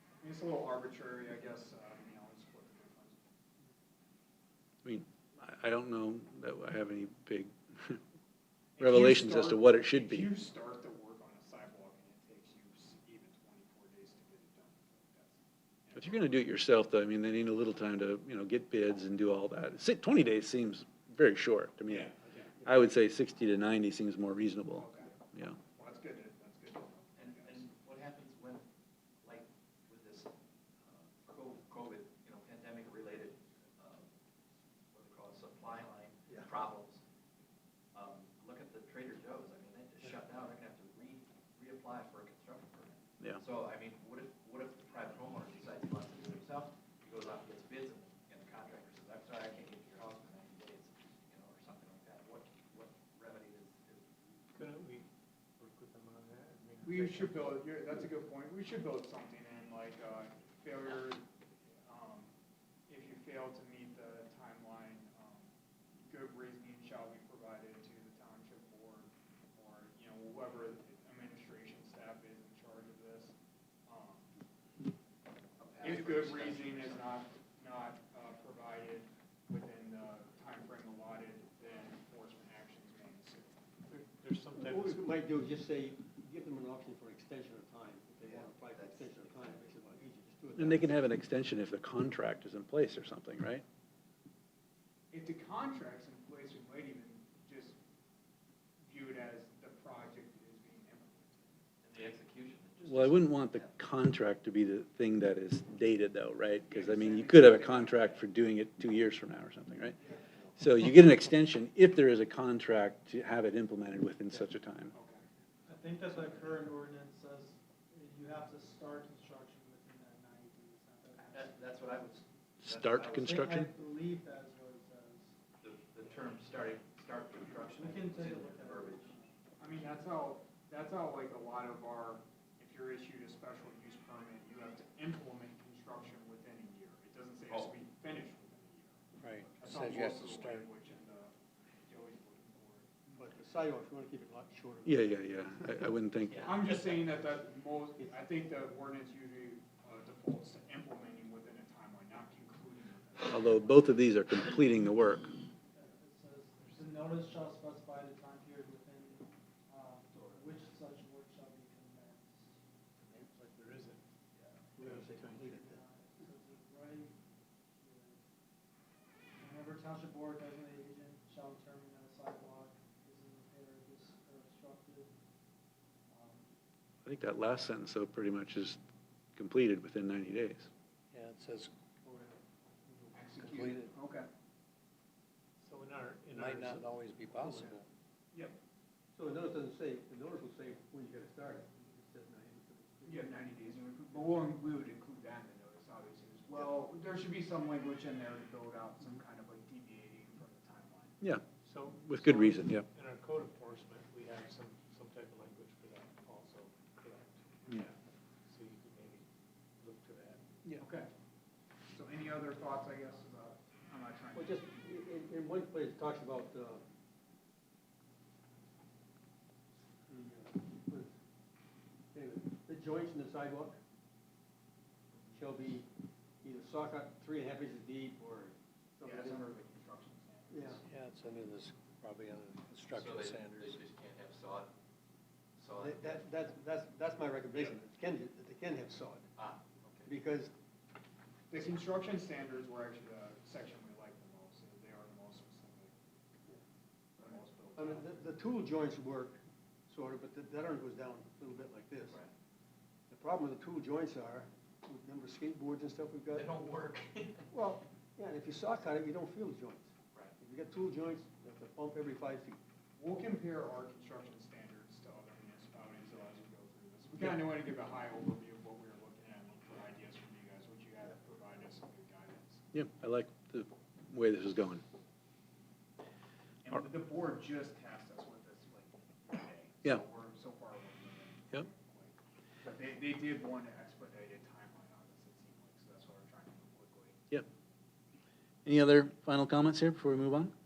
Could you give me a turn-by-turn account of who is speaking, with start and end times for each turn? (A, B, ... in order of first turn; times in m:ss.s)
0:00.2-0:03.2 A
0:04.8-0:08.0 B
0:08.8-0:16.4 A
0:08.8-0:10.3 B
0:16.0-0:25.6 B
0:21.9-0:22.5 A
0:24.7-0:27.7 A
0:27.2-0:28.7 C
0:29.2-0:30.3 C
0:30.8-0:34.1 C
0:34.9-0:37.0 C
0:37.9-0:54.4 C
0:54.6-0:55.0 D
0:55.6-0:57.6 D
0:56.8-1:01.2 A
1:01.9-1:02.3 A
1:02.9-1:05.5 A
1:06.1-1:13.4 A
1:13.9-1:14.3 A
1:15.6-1:17.2 C
1:15.8-1:23.6 A
1:23.9-1:25.0 D
1:24.6-1:31.0 E
1:28.2-1:30.0 C
1:30.6-1:33.6 B
1:35.1-1:37.8 A
1:38.8-1:41.6 A
1:41.8-1:43.7 C
1:42.8-1:50.0 B
1:46.7-1:48.2 A
1:50.6-1:54.9 B
1:54.9-1:55.2 A
1:55.7-2:02.0 F
2:01.2-2:03.5 C
2:02.6-2:03.7 B
2:03.2-2:05.4 F
2:05.6-2:09.1 C
2:07.5-2:09.4 F
2:09.6-2:22.9 A
2:17.5-2:17.8 C
2:19.2-2:20.7 G
2:23.2-2:25.9 E
2:24.9-2:26.5 B
2:26.3-2:27.0 C
2:26.4-2:33.9 A
2:33.3-2:35.4 B
2:35.7-2:42.6 F
2:43.2-2:44.0 D
2:44.4-2:44.6 C
2:44.8-2:45.8 E
2:44.9-2:47.1 F
2:47.8-2:48.2 F
2:49.4-2:55.1 F
2:56.1-2:56.6 F
2:57.0-2:58.8 B
2:59.4-3:00.7 B
3:01.1-3:01.7 G
3:02.1-3:02.4 E
3:03.1-3:04.3 A
3:03.4-3:03.9 G
3:05.6-3:06.9 D
3:06.3-3:07.9 G
3:07.4-3:07.8 E
3:09.2-3:13.5 E
3:13.0-3:21.2 A
3:21.2-3:22.9 B
3:21.6-3:27.9 D
3:28.5-3:29.2 D
3:29.8-3:30.4 D
3:30.8-3:31.1 A
3:31.9-3:34.6 A
3:34.3-3:36.8 E
3:40.1-3:41.1 E
3:42.1-3:43.8 E
3:45.3-3:45.9 E
3:46.4-3:49.5 E
3:49.0-3:50.8 A
3:50.5-3:50.8 E
3:50.8-3:53.8 G
3:52.9-3:54.7 C
3:55.6-3:56.2 C
3:55.8-3:59.3 E
3:59.4-4:00.1 C
4:00.1-4:00.5 E
4:01.5-4:05.9 A
4:07.2-4:08.1 A
4:07.8-4:12.2 E
4:13.1-4:16.5 E
4:16.3-4:17.5 C
4:17.5-4:22.6 E
4:23.0-4:32.6 A
4:32.7-4:34.8 B
4:36.6-4:47.4 A
4:48.6-4:50.5 B